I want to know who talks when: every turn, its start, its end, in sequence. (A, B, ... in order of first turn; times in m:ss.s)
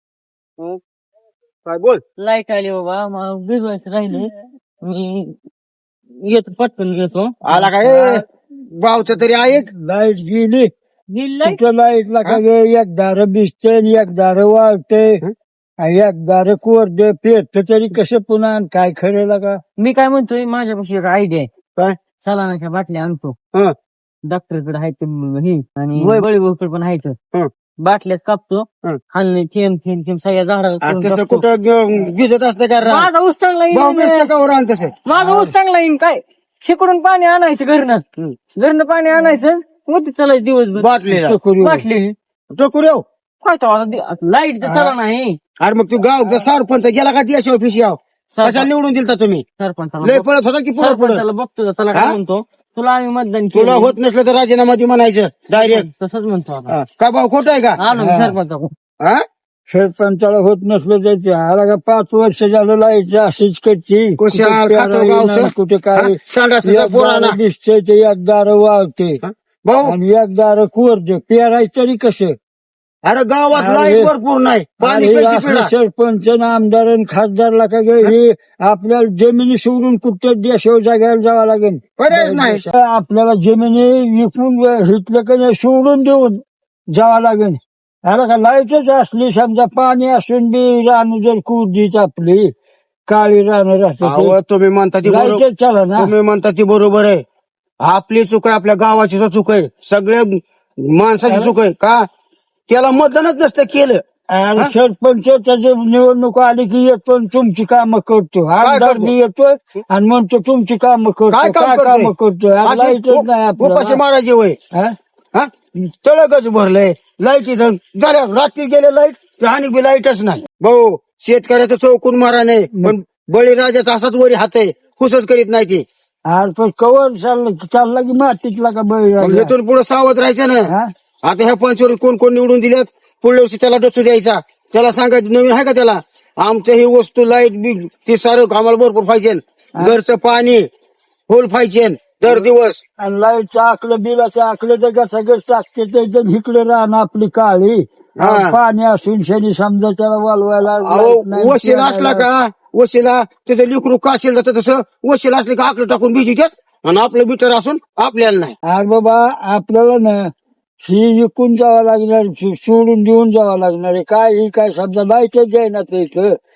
0:01.6-0:02.0 A
0:02.2-0:04.3 B
0:04.8-0:05.4 B
0:06.2-0:07.3 B
0:07.4-0:09.7 A
0:07.8-0:08.2 C
0:09.7-0:10.7 C
0:11.1-0:11.6 B
0:11.4-0:15.2 C
0:15.8-0:19.6 C
0:19.8-0:21.5 B
0:22.2-0:23.4 B
0:24.3-0:27.2 B
0:27.8-0:31.4 B
0:30.8-0:33.1 A
0:32.8-0:34.3 B
0:33.7-0:34.9 A
0:35.0-0:38.0 B
0:35.2-0:35.4 C
0:38.6-0:40.9 B
0:40.8-0:41.4 A
0:41.1-0:41.8 C
0:41.6-0:42.1 B
0:42.5-0:43.0 A
0:43.4-0:45.4 B
0:44.6-0:44.9 C
0:45.6-0:49.4 A
0:48.4-0:48.7 B
0:49.6-0:50.3 B
0:50.0-0:51.2 A
0:50.8-0:54.0 B
0:53.5-0:55.9 A
0:55.5-0:56.7 B
0:56.7-0:57.8 A
0:57.8-0:58.7 B
0:57.9-0:58.4 C
0:59.7-1:09.2 C
1:04.2-1:07.4 A
1:09.2-1:09.9 A
1:09.8-1:12.3 C
1:13.0-1:15.7 A
1:13.5-1:14.1 C
1:14.8-1:26.4 C
1:22.0-1:22.6 A
1:26.9-1:32.5 C
1:33.1-1:34.3 C
1:34.0-1:35.4 A
1:35.0-1:36.1 C
1:36.0-1:37.2 A
1:37.8-1:42.1 A
1:42.7-1:44.0 A
1:44.3-1:54.0 C
1:48.6-1:49.1 A
1:51.3-1:54.6 A
1:55.3-2:05.8 A
2:06.3-2:09.5 C
2:09.2-2:10.7 A
2:11.2-2:20.7 A
2:21.3-2:22.8 A
2:22.2-2:32.2 C
2:28.2-2:28.6 A
2:30.8-2:38.6 A
2:38.6-2:46.4 C